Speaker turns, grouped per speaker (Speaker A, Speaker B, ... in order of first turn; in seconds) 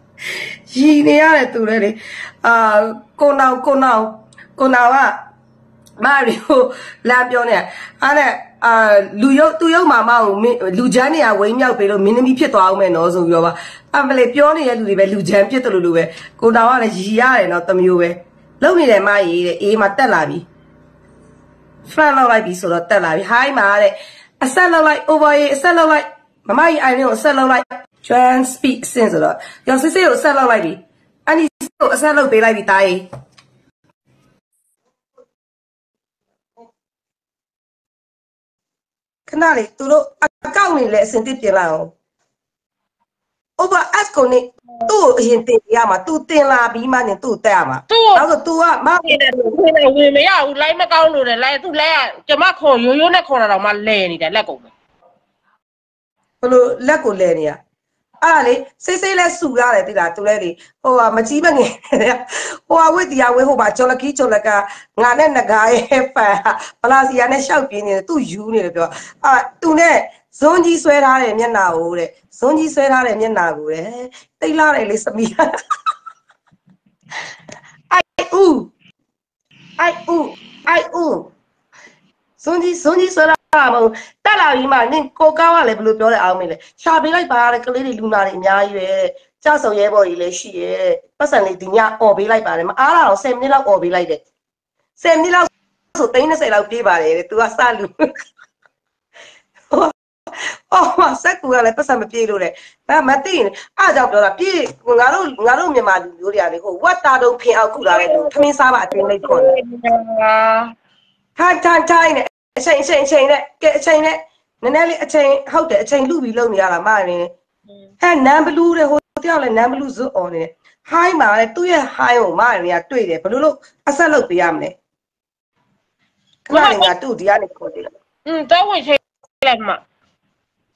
Speaker A: 0.4-5.2, 6.0-20.4, 21.9-33.0, 39.3-41.9, 43.6-49.2, 56.4-57.6, 58.2-75.5, 77.9-78.7, 79.8-81.3, 82.4-94.2, 95.0-97.9, 99.7-109.5, 111.4-117.3, 118.0-124.7, 126.5-127.9
Speaker B: 47.9-48.2, 49.0-54.7, 107.8-110.7, 126.5-126.9, 128.2-129.8